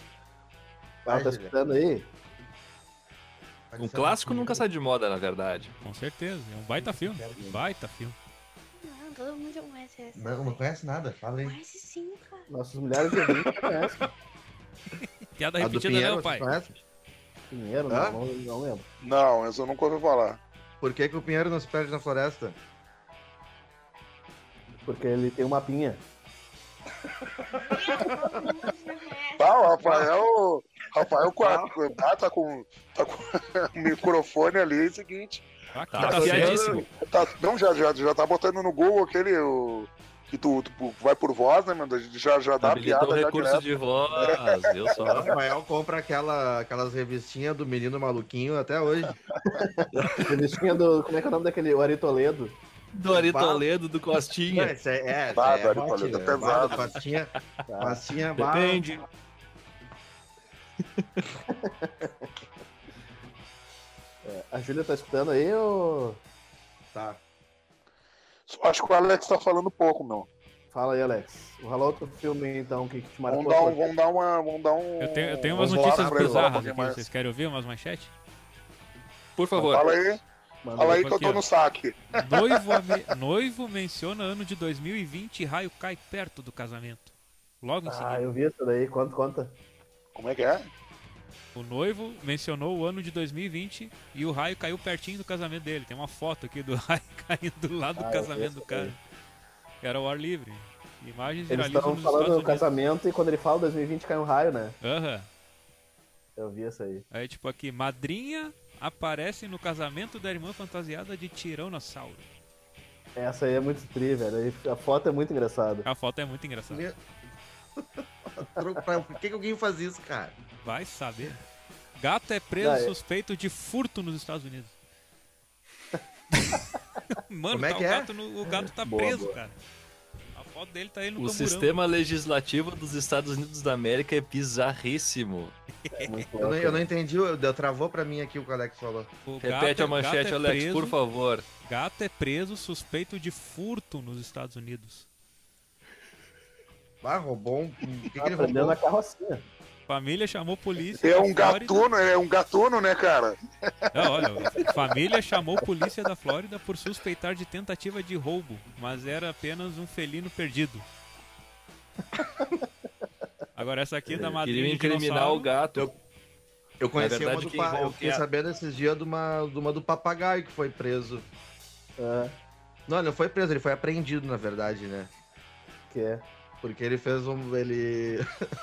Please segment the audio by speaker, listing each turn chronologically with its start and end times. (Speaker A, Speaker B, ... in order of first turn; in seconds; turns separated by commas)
Speaker A: 1.1-1.5, Speaker B: 1.1-2.1, Speaker A: 3.7-4.6, Speaker C: 3.8-5.7, Speaker D: 5.8-8.2, Speaker A: 6.8-7.5, Speaker E: 8.8-10.6, Speaker A: 10.1-11.6, Speaker E: 11.4-12.5, Speaker B: 12.5-14.1, Speaker D: 15.0-16.6, Speaker A: 15.6-16.8, Speaker B: 17.5-18.9, Speaker A: 17.9-18.2, Speaker F: 19.0-20.4, Speaker A: 20.8-22.6, Speaker B: 24.8-26.0, Speaker E: 27.6-29.9, Speaker A: 27.9-28.4, Speaker F: 29.4-35.5, Speaker A: 31.4-31.7, Speaker D: 35.7-36.9, Speaker C: 35.9-36.9, Speaker A: 36.0-36.9, Speaker F: 37.0-43.6, Speaker C: 42.6-45.4, Speaker F: 44.1-44.5, Speaker A: 45.0-49.2, Speaker B: 49.5-52.6, Speaker A: 49.9-50.4, Speaker C: 52.9-54.8, Speaker A: 53.1-53.6, Speaker A: 54.5-58.8, Speaker F: 55.3-56.9, Speaker B: 57.7-58.0, Speaker C: 58.4-59.0, Speaker B: 61.5-62.3, Speaker B: 64.2-66.2, Speaker A: 66.9-67.2, Speaker F: 68.5-70.3, Speaker B: 70.7-73.9, Speaker F: 73.3-77.0, Speaker D: 75.0-78.1, Speaker B: 75.6-76.5, Speaker A: 75.6-76.1, Speaker C: 79.3-79.9, Speaker F: 79.6-80.2, Speaker B: 80.6-81.1, Speaker F: 80.8-83.0, Speaker D: 80.9-81.4, Speaker D: 82.2-88.3, Speaker B: 87.8-89.6, Speaker F: 90.1-90.7, Speaker D: 91.5-99.0, Speaker B: 98.0-98.9, Speaker D: 99.8-102.7, Speaker B: 101.5-104.8, Speaker D: 104.8-105.3, Speaker B: 106.4-107.0, Speaker D: 107.1-112.3, Speaker B: 113.2-115.9, Speaker D: 115.8-116.8, Speaker A: 116.7-117.0, Speaker A: 117.8-120.4, Speaker D: 120.6-121.4, Speaker D: 122.0-124.7, Speaker B: 122.6-122.9, Speaker D: 126.3-129.6, Speaker A: 127.5-128.1, Speaker B: 128.5-129.4, Speaker D: 130.3-131.7, Speaker C: 131.2-135.6, Speaker D: 135.8-136.3, Speaker B: 135.9-136.8, Speaker A: 136.4-139.1, Speaker D: 139.2-141.0, Speaker C: 139.4-141.4, Speaker D: 141.6-145.1, Speaker A: 147.0-148.8, Speaker B: 148.2-149.4, Speaker D: 149.9-151.8, Speaker F: 151.0-154.5, Speaker D: 153.9-160.8, Speaker D: 163.5-165.5, Speaker C: 164.4-165.9, Speaker A: 166.8-171.2, Speaker C: 167.0-168.2, Speaker B: 172.0-172.3, Speaker A: 172.9-175.1, Speaker B: 175.9-176.2, Speaker A: 176.6-178.2